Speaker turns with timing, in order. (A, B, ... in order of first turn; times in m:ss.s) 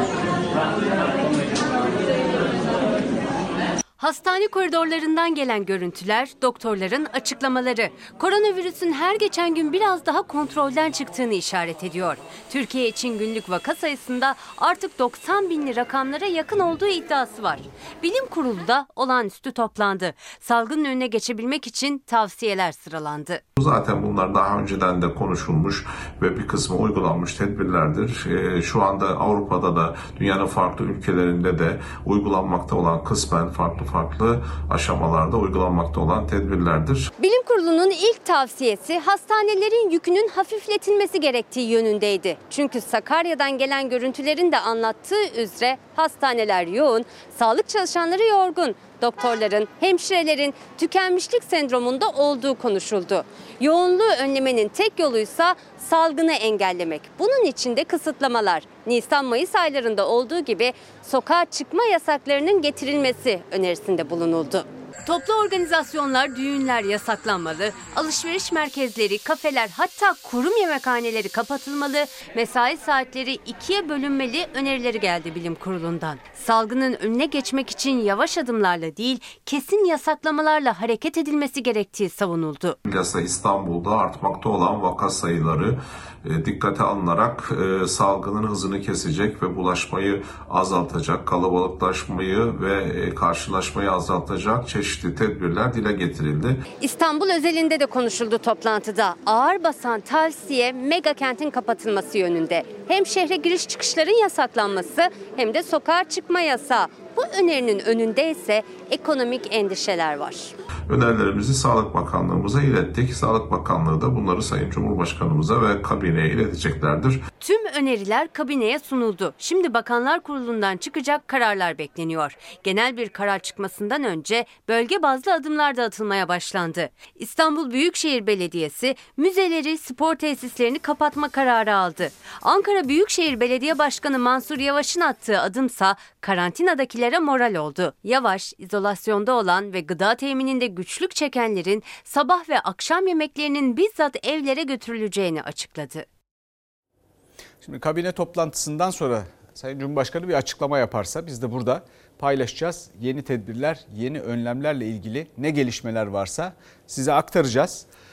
0:04.0-0:23.4 A
0:23.6-0:37.1 B
0:37.2-1:22.8 A
1:22.9-1:36.6 B
1:36.8-1:50.5 A
1:50.9-1:57.2 B
1:57.4-2:26.1 A
2:27.6-2:37.8 C